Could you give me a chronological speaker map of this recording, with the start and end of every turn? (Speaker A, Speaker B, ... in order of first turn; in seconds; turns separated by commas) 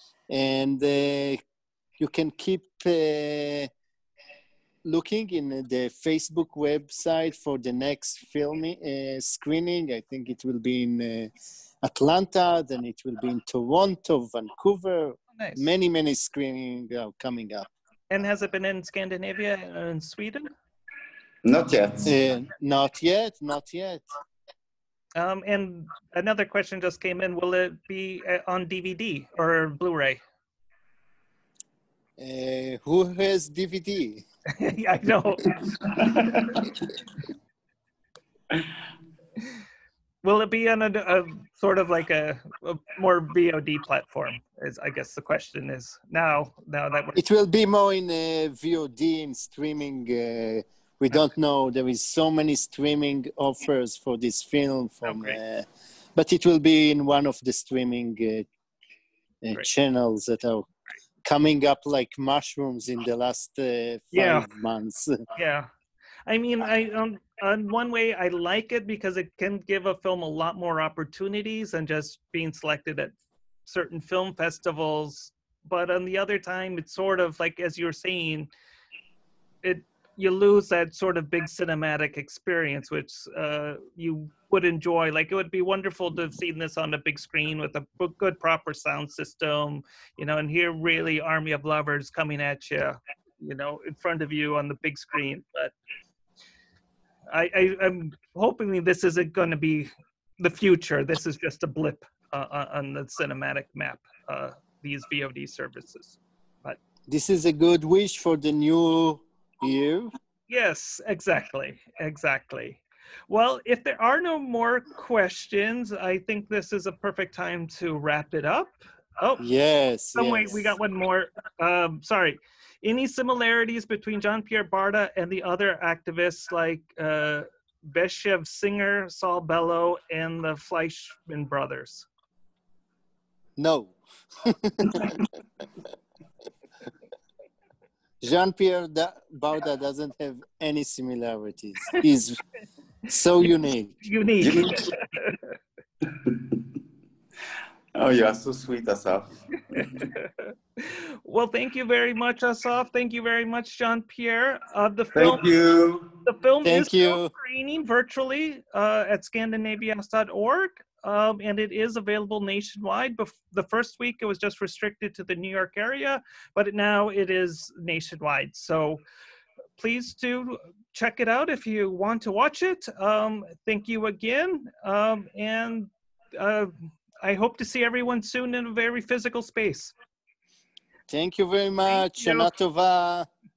Speaker A: 0.3-1.4, Speaker A: 2.0-3.7, Speaker A: 4.8-17.7, Speaker B: 15.4-15.7, Speaker B: 18.1-20.5, Speaker C: 21.4-22.1, Speaker A: 22.1-24.0, Speaker B: 25.2-30.2, Speaker A: 32.2-34.2, Speaker B: 34.5-36.6, Speaker B: 40.2-47.2, Speaker A: 47.2-58.5, Speaker B: 55.1-55.4, Speaker A: 59.4-60.7, Speaker A: 61.2-65.2, Speaker B: 64.1-64.5, Speaker B: 65.3-65.7, Speaker B: 66.3-78.5, Speaker B: 79.6-95.7, Speaker B: 97.3-106.8, Speaker A: 107.1-110.1, Speaker B: 110.5-119.4, Speaker A: 119.4-120.8, Speaker B: 120.2-132.1, Speaker A: 133.6-135.2, Speaker A: 138.2-142.4, Speaker A: 143.1-144.1, Speaker B: 144.0-145.4, Speaker C: 144.4-144.9, Speaker C: 146.1-146.6, Speaker C: 147.9-150.1, Speaker B: 149.8-155.4, Speaker C: 155.1-156.1, Speaker B: 156.2-169.0, Speaker A: 156.6-157.3, Speaker B: 169.8-176.7, Speaker B: 177.2-179.9, Speaker A: 181.1-183.3, Speaker B: 181.9-182.5